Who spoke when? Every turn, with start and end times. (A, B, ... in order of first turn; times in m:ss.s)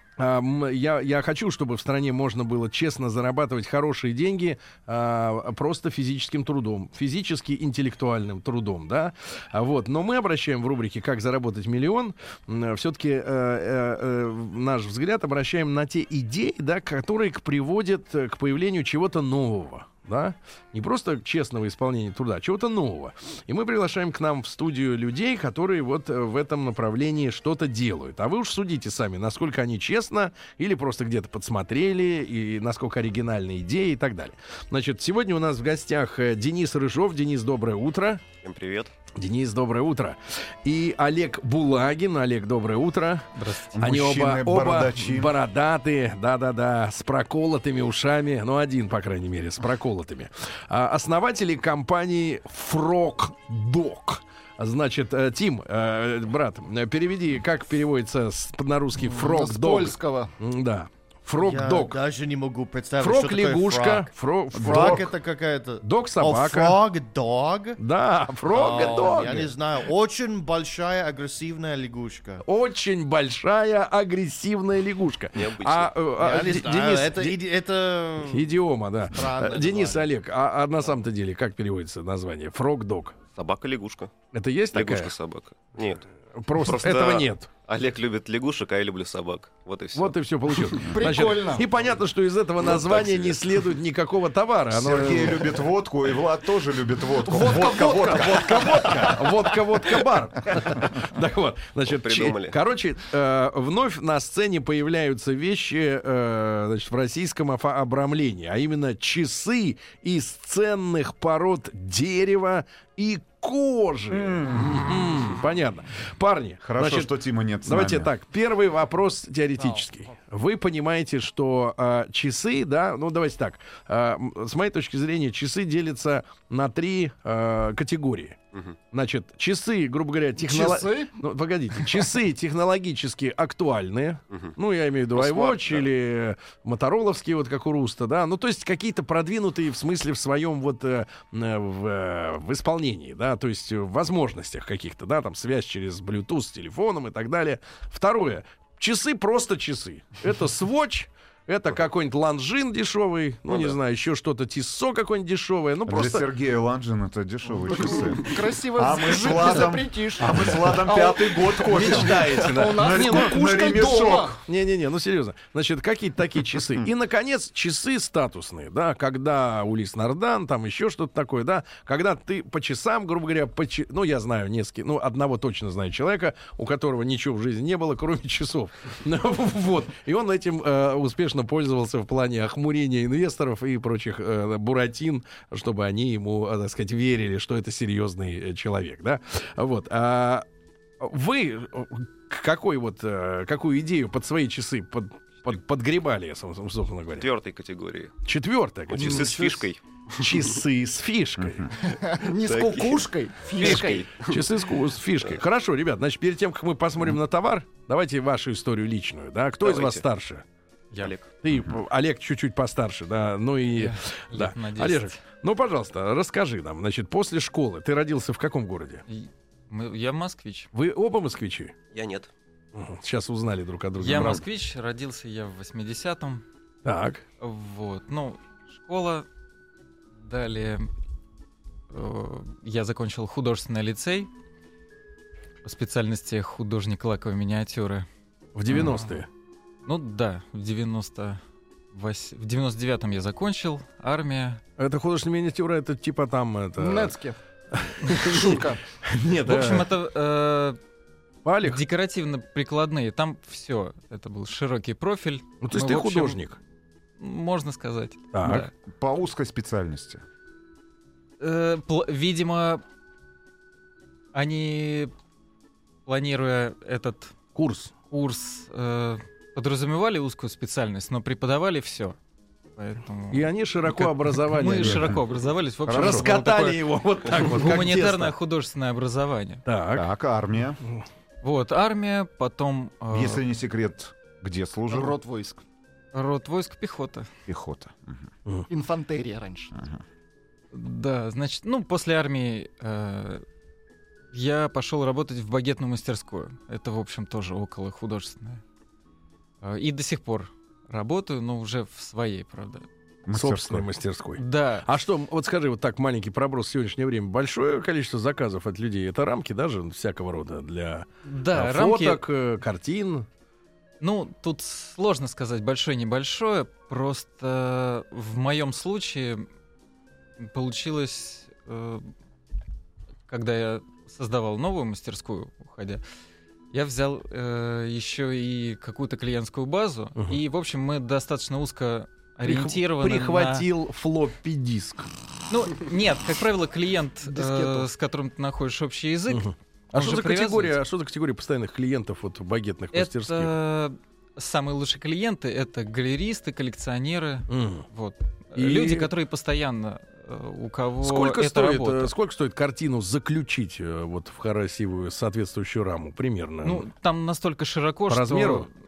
0:00.2-0:38.2 A
0:38.4-0:38.9 B
0:39.2-1:02.0 A
0:43.3-0:43.7 C
0:43.7-0:45.3 D
0:59.0-1:00.4 E
1:01.4-1:07.8 F
1:03.0-1:05.1 A
1:04.5-1:05.0 D
1:05.8-1:06.8 A
1:07.8-1:09.5 A
1:08.5-1:12.4 F
1:12.4-1:17.4 A
1:15.3-1:16.0 B
1:16.2-1:18.4 F
1:18.2-1:23.2 A
1:19.1-1:20.1 F
1:23.3-1:24.1 B
1:24.3-1:25.1 A
1:24.7-1:30.8 B
1:26.3-1:27.5 A
1:29.9-1:35.6 A
1:30.8-1:31.7 E
1:32.6-1:33.6 B
1:34.7-1:39.3 D
1:37.2-1:38.6 E
1:37.3-2:08.4 A
1:41.8-1:42.6 B
1:54.1-1:54.9 D
1:56.6-1:58.1 D
1:59.6-1:59.9 E
2:08.9-2:36.3 A
2:10.4-2:11.2 E
2:15.1-2:15.9 B
2:33.5-2:33.8 B
2:35.9-2:44.4 D
2:37.6-2:44.4 E
2:40.2-2:40.9 A
2:41.6-2:43.4 A
2:44.4-3:10.4 A
3:11.0-3:17.3 A
3:17.2-3:18.1 B
3:18.2-3:19.6 A
3:18.9-3:20.6 B
3:20.2-3:21.7 A
3:21.8-3:24.2 E
3:22.2-3:24.6 B
3:24.2-3:30.4 A
3:29.6-3:30.0 B
3:31.0-3:31.3 B
3:31.4-3:39.0 A
3:33.7-3:35.2 C
3:39.1-3:40.7 C
3:40.7-3:41.7 A
3:41.9-3:42.3 B
3:42.7-3:44.4 A
3:44.0-3:46.4 C
3:46.8-3:47.2 A
3:47.4-3:49.2 C
3:50.2-3:50.9 C
3:51.9-3:54.3 C
3:55.6-3:58.1 C
3:58.5-3:59.3 A
3:58.7-3:59.2 E
3:59.8-4:01.4 C
4:01.9-4:04.6 C
4:04.8-4:07.2 A
4:06.8-4:07.4 E
4:07.7-4:09.9 A
4:08.0-4:08.8 E
4:09.4-4:10.8 C
4:11.4-4:11.8 A
4:11.6-4:16.4 C
4:15.6-4:16.6 A
4:17.2-4:18.7 C
4:18.3-4:18.7 A
4:18.8-4:20.2 D
4:21.4-4:22.8 C
4:24.3-4:25.1 C
4:26.0-4:27.3 C
4:27.5-4:27.9 A
4:28.1-4:32.2 C
4:32.8-4:39.6 C
4:33.3-4:35.2 A
4:34.8-4:35.1 D
4:35.9-4:36.3 D
4:35.9-4:38.3 A
4:39.6-4:40.1 A
4:39.9-4:40.8 D
4:41.4-4:43.4 C
4:43.1-4:45.2 D
4:44.9-4:45.6 E
4:46.1-4:47.3 C
4:47.5-4:48.3 D
4:48.7-4:49.8 E
4:49.7-4:50.0 D
4:50.7-4:53.4 C
4:54.3-4:58.6 C
4:59.6-5:02.8 C
5:03.2-5:03.9 D
5:03.3-5:13.3 A
5:04.4-5:04.9 C
5:11.2-5:12.2 C
5:14.0-5:19.4 C
5:20.4-5:22.1 C
5:23.3-5:26.0 C
5:26.7-5:33.7 C
5:32.4-5:35.1 A
5:35.5-5:40.8 C
5:37.2-5:37.9 E
5:39.3-5:43.5 A
5:42.9-5:52.1 C
5:47.5-5:47.8 A
5:48.6-5:49.1 A
5:51.0-5:56.8 A
5:56.6-5:58.7 C
5:58.1-5:58.7 A